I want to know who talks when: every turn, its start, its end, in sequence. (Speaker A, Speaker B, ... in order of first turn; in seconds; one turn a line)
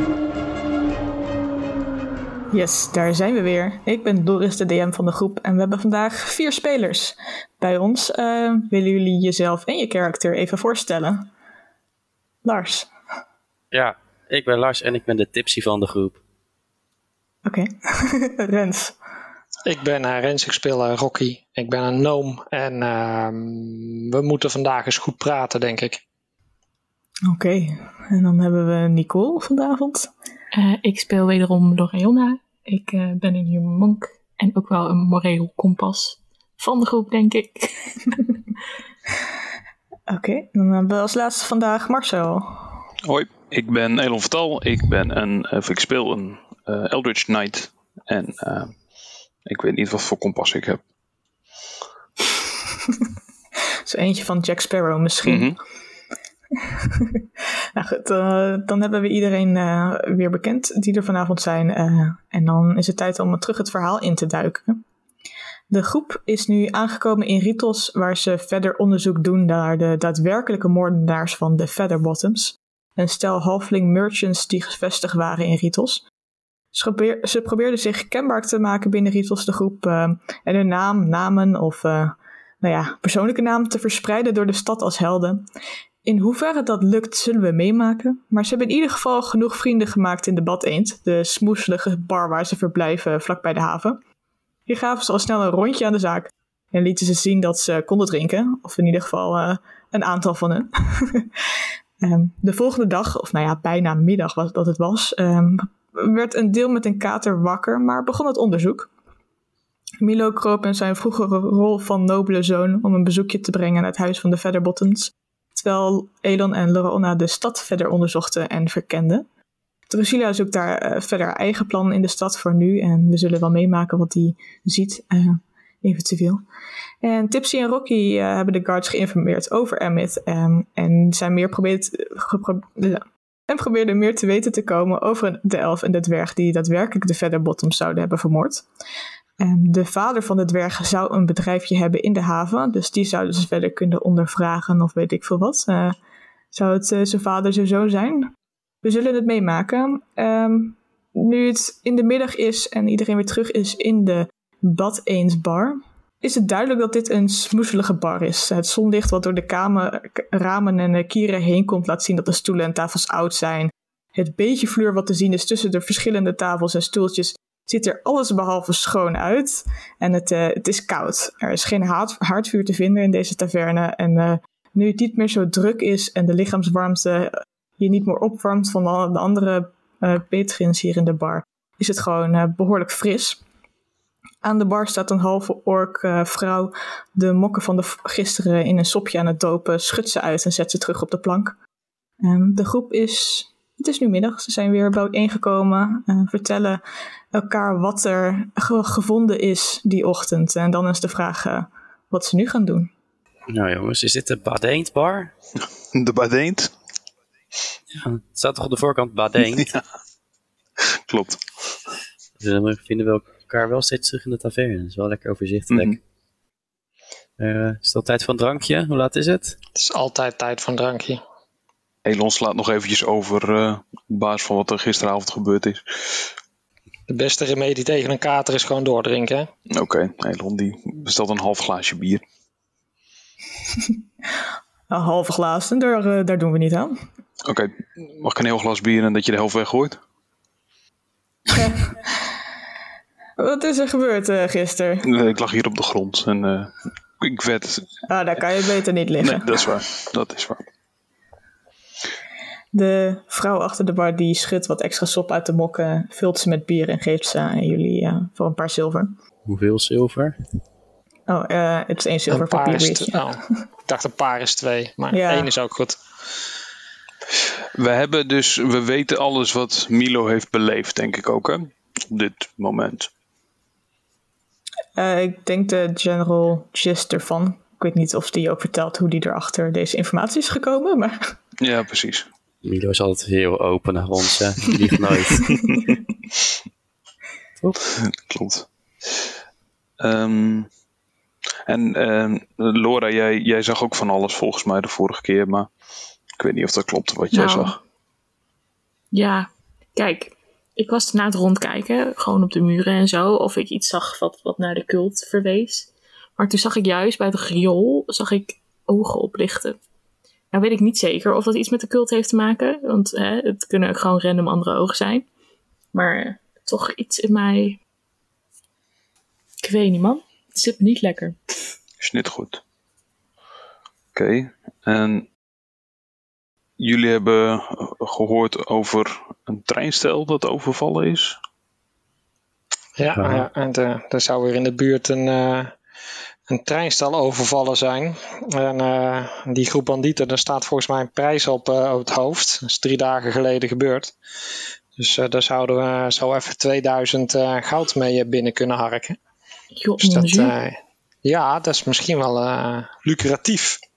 Speaker A: 2.5-11.3
Speaker A: 12.4-12.9
Speaker B: 13.7-16.2
Speaker A: 17.4-18.9
Speaker C: 19.6-26.0
Speaker A: 27.3-30.1
Speaker D: 30.5-38.1
Speaker A: 40.1-42.8
Speaker E: 43.0-48.8
Speaker E: 49.5-50.8
Speaker A: 53.9-55.5
Speaker E: 55.2-55.5
Speaker A: 56.6-64.8
Speaker A: 65.7-76.0
Speaker A: 76.7-85.5
Speaker A: 86.0-94.0
Speaker A: 94.7-101.3
Speaker A: 102.0-108.9
Speaker A: 110.0-119.2
Speaker A: 119.9-126.4
Speaker A: 127.0-138.6
Speaker A: 139.4-146.0
Speaker A: 146.5-183.4
Speaker A: 184.4-191.6
Speaker A: 192.2-196.8
Speaker A: 197.3-202.9
Speaker B: 203.5-205.3
Speaker E: 205.9-206.7
Speaker B: 207.9-209.8
Speaker E: 211.1-211.4
Speaker B: 212.4-216.0
Speaker E: 215.7-216.0
Speaker B: 217.4-219.6
Speaker C: 219.7-221.2
Speaker E: 222.0-226.2
Speaker C: 227.1-229.5
Speaker E: 229.7-232.2
Speaker A: 234.9-237.0
Speaker E: 237.4-240.0
Speaker A: 241.5-241.9
Speaker A: 243.4-245.1
Speaker E: 245.0-247.9
Speaker A: 248.1-249.6
Speaker E: 249.2-250.6
Speaker A: 252.7-259.1
Speaker B: 259.4-260.4
Speaker A: 261.3-263.3
Speaker C: 262.3-266.0
Speaker A: 265.1-265.5
Speaker E: 267.7-273.1
Speaker A: 274.9-281.3
Speaker E: 281.6-282.3
Speaker B: 282.6-285.6
Speaker E: 285.5-285.8
Speaker E: 287.9-288.7
Speaker E: 290.0-290.7
Speaker E: 291.7-295.7
Speaker E: 296.4-297.8
Speaker D: 297.3-297.8
Speaker D: 299.1-309.8
Speaker D: 310.5-315.2
Speaker D: 315.9-317.8
Speaker D: 319.6-321.4
Speaker E: 322.0-322.6
Speaker E: 324.1-325.3
Speaker E: 326.8-331.4
Speaker C: 333.0-335.7
Speaker B: 333.1-333.5
Speaker C: 336.5-344.1
Speaker C: 345.0-349.2
Speaker D: 349.7-350.5
Speaker C: 350.0-353.8